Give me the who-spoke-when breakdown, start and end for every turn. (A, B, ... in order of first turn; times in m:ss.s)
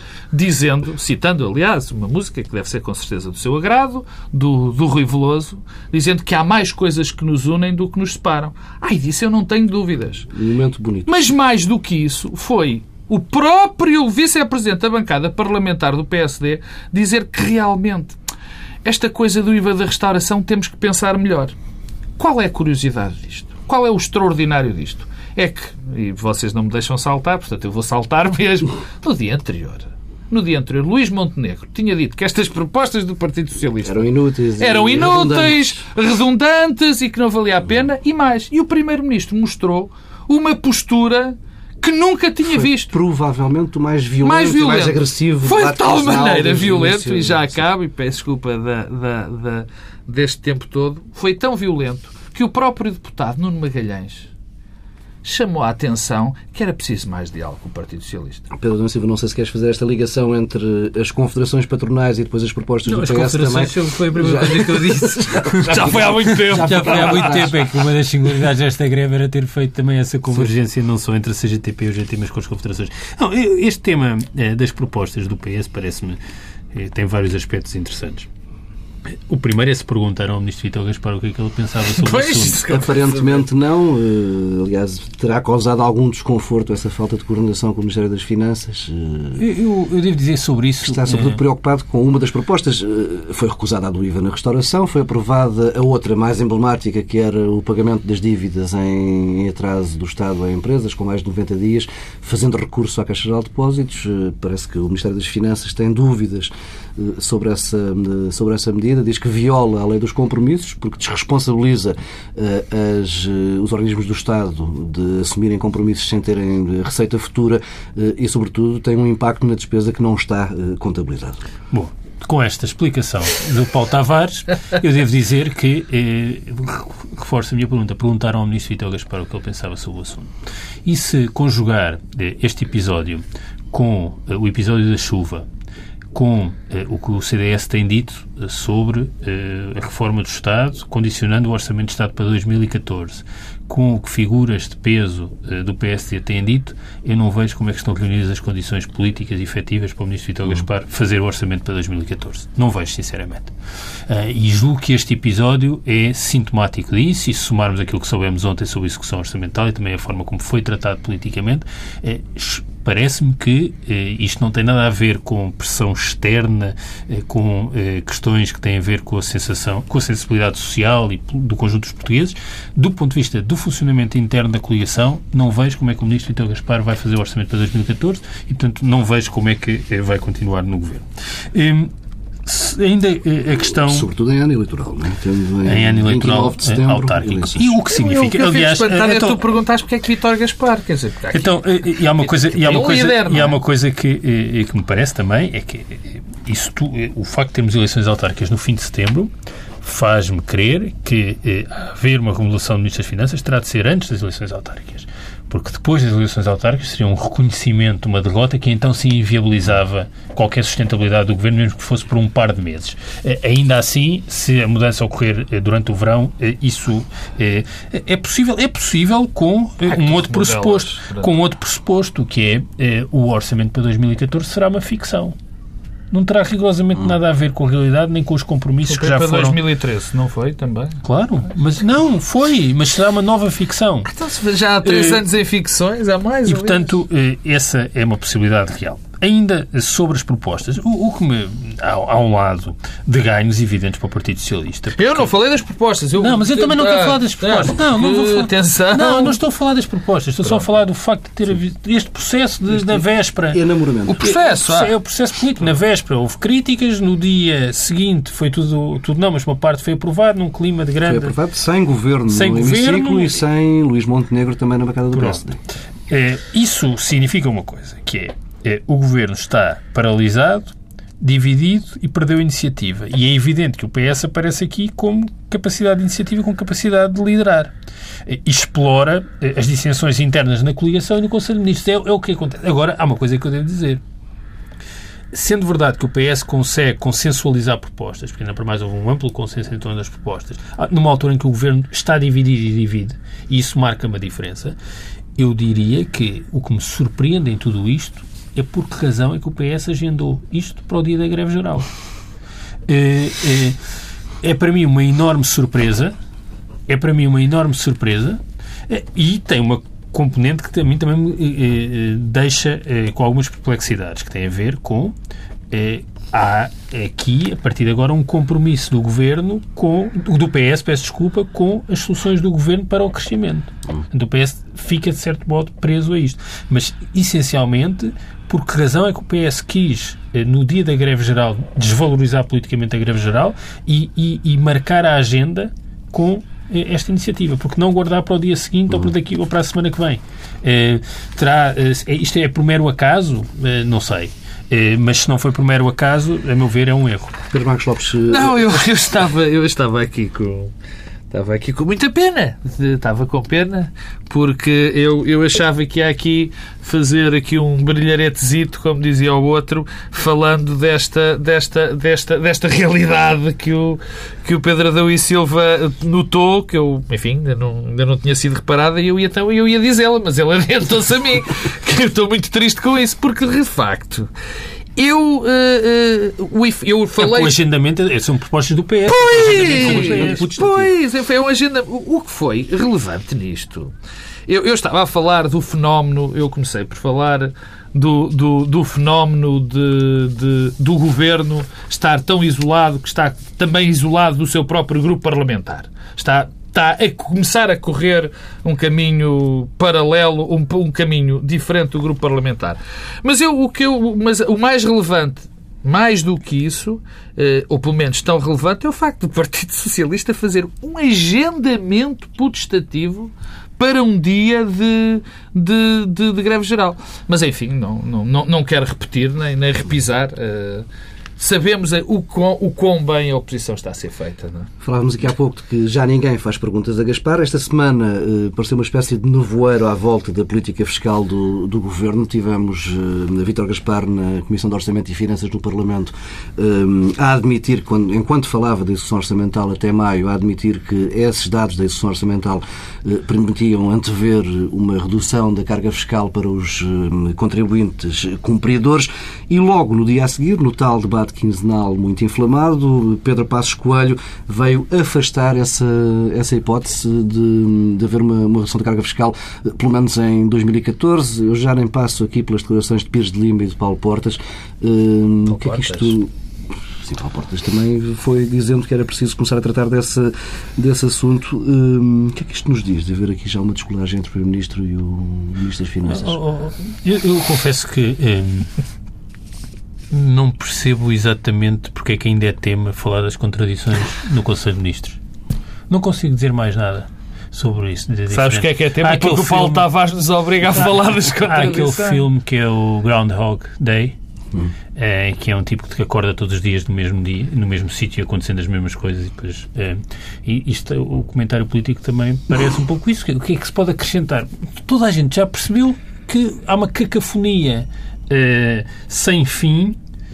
0:00.3-0:10.3 A
0:10.3-0:11.2 B
0:11.0-0:18.2 A
0:18.8-0:21.5 A
0:22.2-0:43.0 A
0:33.8-0:35.8 B
0:42.5-0:47.5 B
0:44.2-0:54.3 A
0:55.2-0:58.5 A
0:58.5-1:07.6 B
1:02.8-1:05.7 C
1:03.6-1:07.6 A
1:06.5-1:16.2 C
1:16.7-1:18.3 C
1:19.1-1:22.6 C
1:21.8-1:23.4 A
1:22.7-1:29.4 B
1:29.4-1:31.4 C
1:30.8-2:01.4 B
2:01.7-2:10.3 C
2:10.8-2:15.4 C
2:16.1-2:33.5 C
2:34.1-3:01.9 C
3:02.4-3:04.1 C
3:03.7-3:07.8 B
3:05.6-3:09.4 C
3:07.9-3:11.5 A
3:11.3-3:19.3 C
3:12.2-3:13.6 A
3:19.8-3:45.4 C
3:39.9-3:41.3 A
3:46.1-3:49.6 C
3:48.8-3:51.0 A
3:51.0-3:54.1 C
3:54.0-3:56.9 A
3:54.8-3:55.2 C
3:56.4-4:05.3 C
4:05.0-4:09.4 A
4:06.2-4:13.6 C
4:12.7-4:14.2 B
4:14.1-4:14.9 A
4:14.2-4:21.3 C
4:21.0-4:25.6 B
4:22.3-4:23.4 C
4:25.1-4:25.4 C
4:26.1-4:37.7 C
4:38.2-4:44.0 C
4:45.3-4:54.8 C
4:55.4-5:01.9 C
5:02.9-5:03.8 C
5:04.4-5:06.1 C
5:06.9-5:15.1 C
5:15.7-5:47.3 C
5:47.5-5:48.8 B
5:48.3-5:50.7 A
5:51.3-6:14.3 A
6:15.0-6:17.5 A
6:17.2-6:20.9 C
6:19.1-6:23.9 A
6:20.0-6:20.3 B
6:24.5-7:00.9 A
7:01.4-7:04.7 A
7:04.8-7:46.3 B
7:45.4-7:46.2 A
7:47.0-7:56.4 B
7:56.1-7:58.7 C
8:00.1-8:05.2 C
8:05.9-8:09.9 C
8:08.3-8:12.2 A
8:10.7-8:14.2 C
8:14.9-8:30.0 C